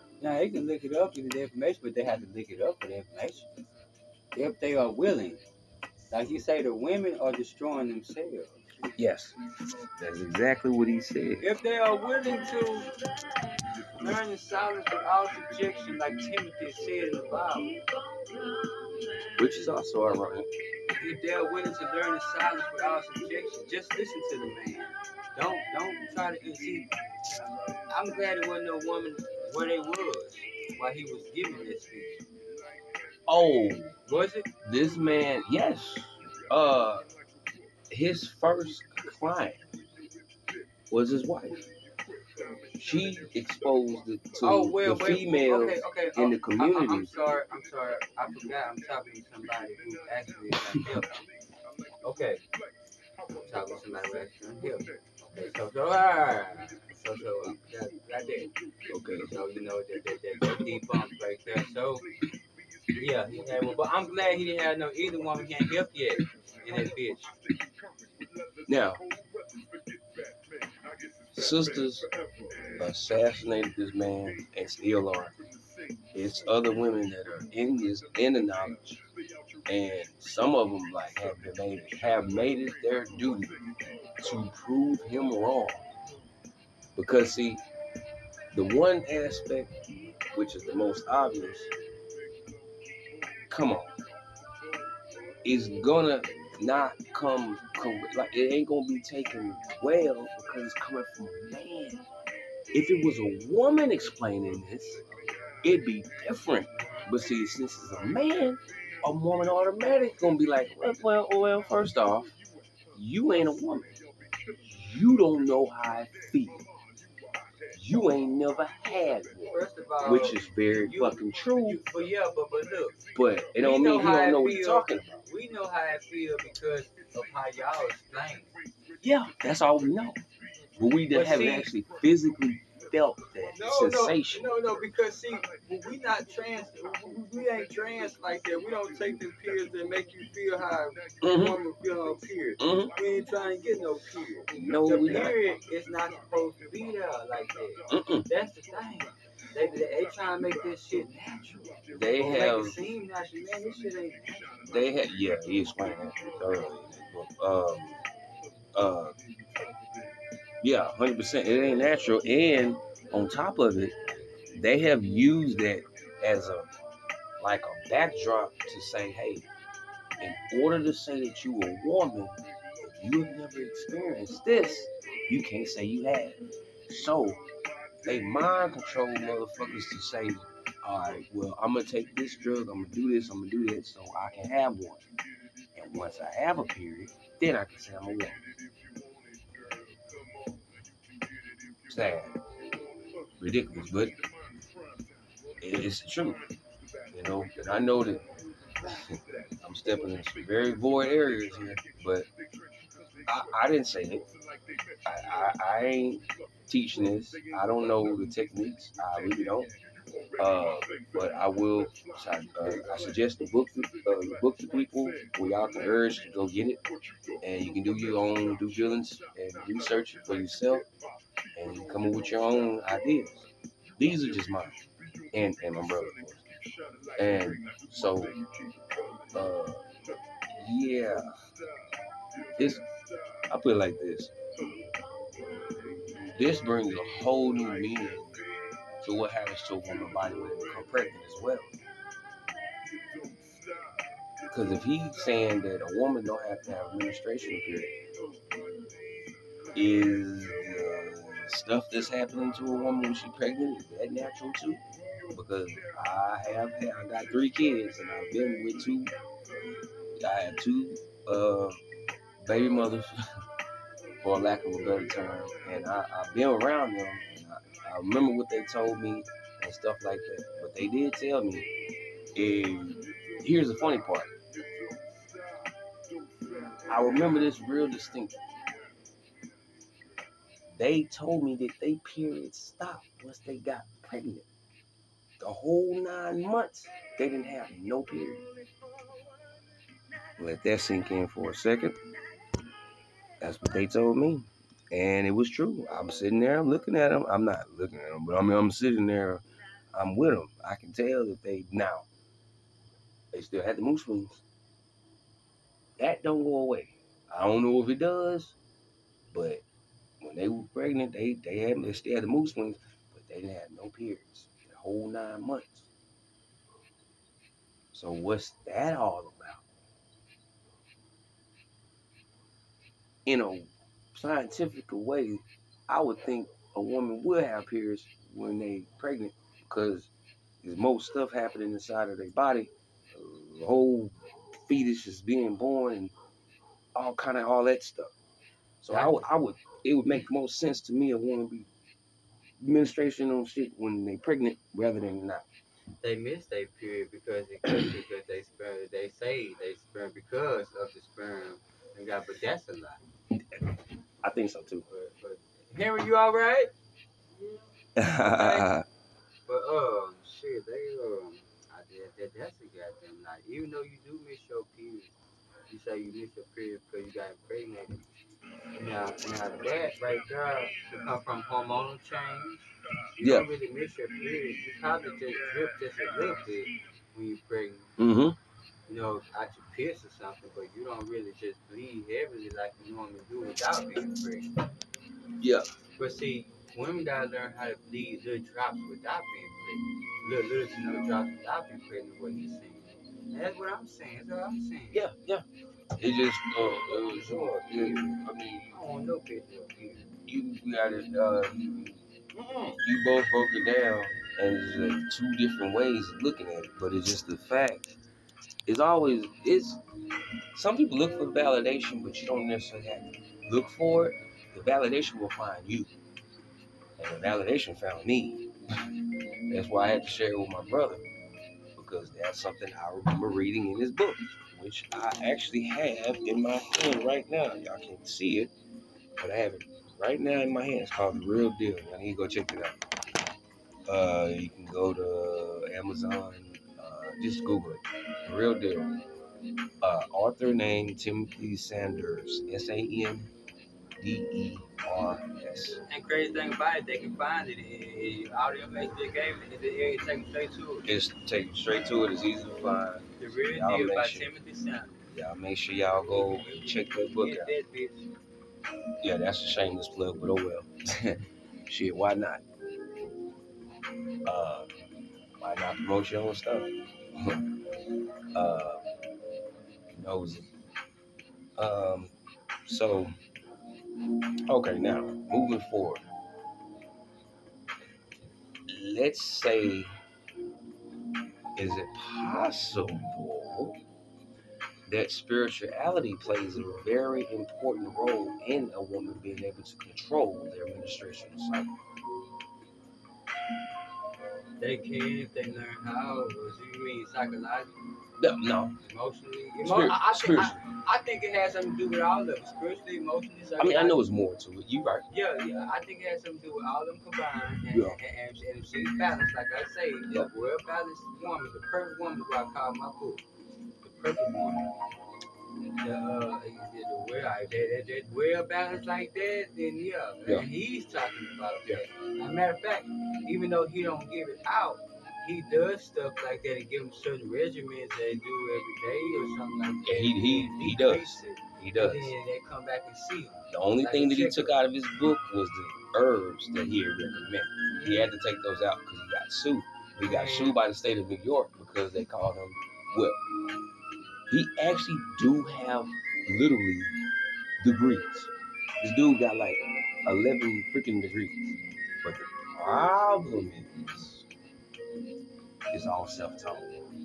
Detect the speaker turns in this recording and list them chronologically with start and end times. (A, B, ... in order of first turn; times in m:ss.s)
0:00.2-0:03.5 A
0:04.4-0:05.4 A
0:06.1-0:08.6 A
0:09.0-0:09.4 B
0:10.0-0:11.4 B
0:11.4-0:12.9 A
0:13.9-0:18.9 A
0:19.4-0:20.5 B
0:21.0-0:32.2 A
0:33.3-0:33.9 B
0:34.1-0:34.5 A
0:34.6-0:37.1 B
0:37.9-0:39.6 B
0:40.9-0:41.6 B
0:42.8-0:47.1 B
0:44.4-0:51.1 A
0:52.0-0:52.4 A
0:53.4-0:58.5 A
0:58.9-0:59.5 B
0:59.3-1:02.0 A
1:03.0-1:07.3 A
1:08.7-1:09.0 B
1:11.3-1:12.1 B
1:12.8-1:15.4 B
1:16.2-1:19.0 B
1:19.7-1:23.6 B
1:24.2-1:25.8 B
1:27.0-1:27.6 B
1:28.5-1:29.7 B
1:30.3-1:31.7 B
1:33.5-1:33.9 B
1:35.4-1:42.0 B
1:42.7-1:45.0 B
1:45.6-1:52.3 B
1:46.8-1:47.0 A
1:53.0-1:53.9 B
1:54.6-1:56.6 B
1:57.7-2:01.8 B
1:59.5-2:03.0 A
2:03.1-2:05.2 B
2:03.6-2:08.5 A
2:09.0-2:10.2 B
2:10.8-2:14.5 B
2:11.1-2:11.7 A
2:13.5-2:34.7 A
2:21.2-2:21.6 B
2:22.6-2:22.9 B
2:24.5-2:25.4 B
2:27.9-2:28.3 B
2:31.9-2:32.8 B
2:34.7-2:38.0 B
2:38.8-2:39.2 B
2:40.6-2:43.9 B
2:44.5-2:46.7 B
2:47.4-2:49.5 B
2:50.2-2:56.4 B
2:56.9-2:57.4 B
2:58.0-3:05.0 B
3:05.8-3:08.4 B
3:11.9-3:12.4 B
3:13.4-3:14.2 B
3:15.6-3:16.4 B
3:17.1-3:18.2 B
3:18.8-3:22.3 B
3:23.3-3:24.2 B
3:25.1-3:29.7 B
3:30.4-3:36.8 B
3:37.4-3:40.9 B
3:41.6-3:43.5 B
3:44.0-3:44.8 B
3:45.3-3:46.4 B
3:47.2-3:48.4 B
3:49.3-3:49.8 B
3:50.6-3:51.3 B
3:52.6-3:52.8 B
3:53.5-3:54.3 B
3:56.4-3:58.4 B
3:59.0-4:01.7 B
4:04.5-4:08.0 B
4:09.7-4:19.1 B
4:20.2-4:21.8 B
4:22.4-4:23.1 B
4:24.2-4:31.7 B
4:32.4-4:34.3 B
4:36.9-4:38.3 B
4:40.8-4:44.5 B
4:45.4-4:48.4 B
4:50.4-4:52.0 B
4:53.4-4:59.4 B
4:59.9-5:02.1 B
5:03.3-5:04.4 B
5:06.0-5:08.6 B
5:09.3-5:09.6 B
5:10.2-5:15.9 B
5:17.9-5:19.6 B
5:23.3-5:30.1 B
5:30.6-5:36.1 B
5:37.0-5:38.1 B
5:38.8-5:41.7 B
5:38.9-5:39.2 A
5:42.6-5:45.5 B
5:46.0-5:53.0 A
5:53.5-5:54.9 B
5:54.9-5:56.7 A
5:58.0-5:58.8 B
5:58.2-5:58.7 A
5:59.5-6:05.2 A
6:05.7-6:08.0 A
6:08.8-6:17.9 A
6:13.2-6:13.5 B
6:18.0-6:18.4 B
6:18.9-6:24.5 A
6:25.4-6:25.7 B
6:26.0-6:35.0 A
6:34.9-6:35.4 B
6:36.0-6:38.8 B
6:36.6-6:38.2 A
6:38.7-6:40.1 A
6:40.3-6:42.0 B
6:42.4-6:42.8 A
6:42.8-6:48.0 B
6:48.7-6:49.8 B
6:50.5-6:55.9 B
6:57.0-6:58.5 B
6:59.5-7:01.0 B
7:01.8-7:08.5 B
7:09.2-7:12.8 B
7:13.9-7:19.0 B
7:19.8-7:23.3 B
7:24.0-7:25.8 B
7:25.9-7:30.9 A
7:30.9-7:34.3 B
7:33.2-7:35.0 A
7:35.1-7:37.5 B
7:36.1-7:38.1 A
7:39.0-7:42.4 B
7:44.2-7:44.7 B
7:45.4-7:47.4 B
7:48.4-7:48.8 B
7:49.9-7:50.5 B
7:51.6-7:52.1 B
7:52.7-7:53.1 B
7:54.5-7:56.0 B
7:58.7-7:59.9 B
8:01.6-8:03.8 B
8:04.9-8:11.7 B
8:14.6-8:17.7 A
8:18.2-8:18.8 B
8:18.8-8:24.0 A
8:19.6-8:20.6 B
8:23.6-8:25.1 B
8:25.1-8:33.2 A
8:27.7-8:28.0 B
8:33.8-8:34.6 A
8:35.8-8:54.6 A
8:49.9-8:52.1 B
8:53.5-9:03.2 B
8:57.7-8:58.1 A
9:00.0-9:00.6 A
9:04.3-9:06.9 B
9:07.6-9:11.4 B
9:12.0-9:14.3 B
9:15.7-9:16.7 B